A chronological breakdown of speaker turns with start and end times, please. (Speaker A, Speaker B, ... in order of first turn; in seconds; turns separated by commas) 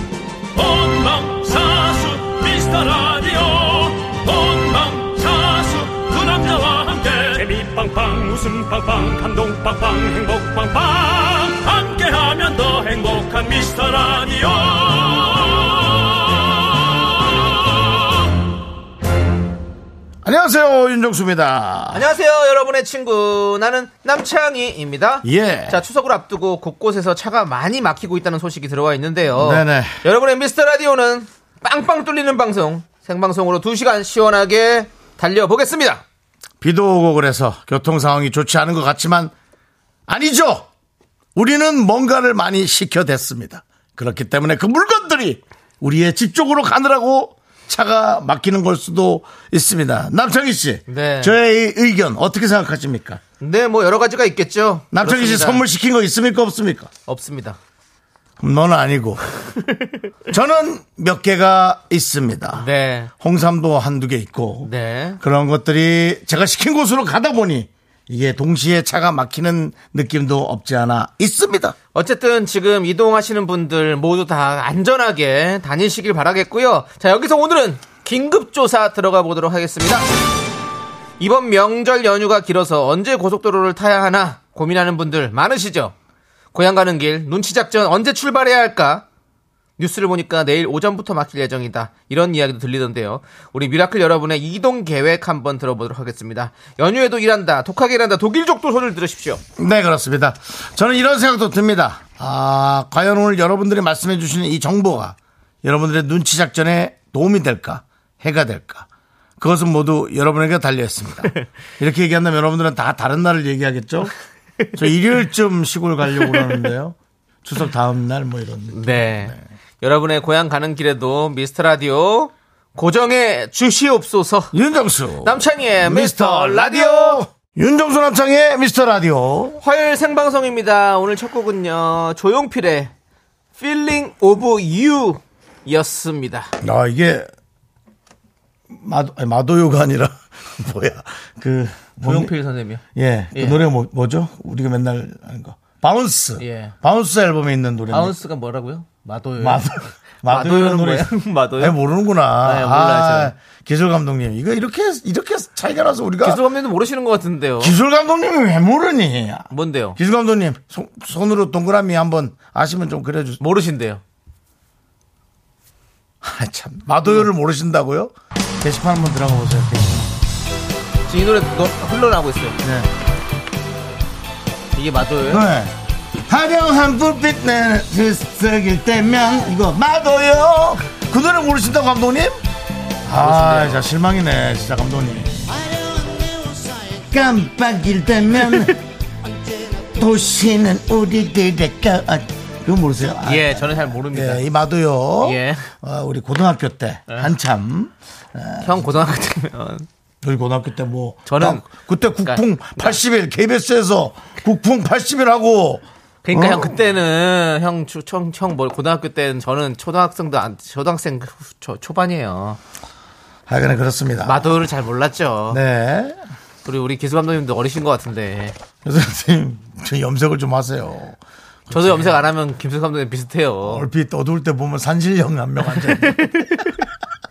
Speaker A: 0.5-18.1, Speaker B: 20.2-22.1, Speaker C: 21.9-36.0, Speaker B: 25.2-25.8, Speaker B: 29.3-30.0, Speaker B: 36.6-39.3, Speaker B: 40.1-40.7, Speaker B: 41.4-53.2, Speaker C: 50.9-51.4, Speaker C: 53.4-55.6, Speaker B: 54.9-56.9, Speaker C: 57.1-57.6, Speaker B: 58.4-59.2, Speaker B: 60.3-62.7, Speaker C: 62.6-63.1, Speaker B: 63.2-71.8, Speaker C: 64.6-65.2, Speaker C: 71.9-80.1, Speaker C: 81.2-85.9, Speaker C: 86.5-89.0, Speaker C: 89.8-99.4, Speaker B: 99.6-108.9, Speaker B: 109.4-114.1, Speaker B: 114.7-119.4, Speaker C: 118.7-124.5, Speaker B: 124.5-129.6, Speaker C: 125.2-127.2, Speaker C: 129.6-132.9, Speaker C: 133.6-136.5, Speaker B: 136.6-137.3, Speaker B: 138.7-142.3, Speaker C: 142.0-142.8, Speaker B: 142.9-148.2, Speaker C: 143.3-143.6, Speaker C: 146.4-146.8, Speaker C: 147.9-151.8, Speaker B: 149.4-156.4, Speaker C: 152.4-153.3, Speaker C: 156.2-157.8, Speaker B: 157.6-163.4, Speaker C: 159.5-160.0, Speaker C: 163.4-164.0, Speaker B: 166.2-170.1, Speaker C: 171.1-172.6, Speaker B: 172.6-172.9, Speaker C: 174.8-175.5, Speaker B: 175.3-175.8, Speaker B: 176.3-182.4, Speaker B: 183.1-185.6, Speaker C: 183.1-183.9, Speaker B: 187.0-188.8, Speaker B: 189.9-198.9, Speaker C: 193.2-194.5, Speaker C: 195.2-195.7, Speaker C: 198.6-199.9, Speaker B: 200.2-206.8, Speaker C: 201.3-201.7, Speaker C: 202.2-203.0, Speaker C: 206.2-212.6, Speaker B: 213.5-214.5, Speaker C: 214.2-215.6, Speaker B: 215.5-216.2, Speaker C: 216.7-218.6, Speaker B: 218.8-222.2, Speaker C: 221.7-223.9, Speaker B: 223.6-226.7, Speaker C: 225.7-226.7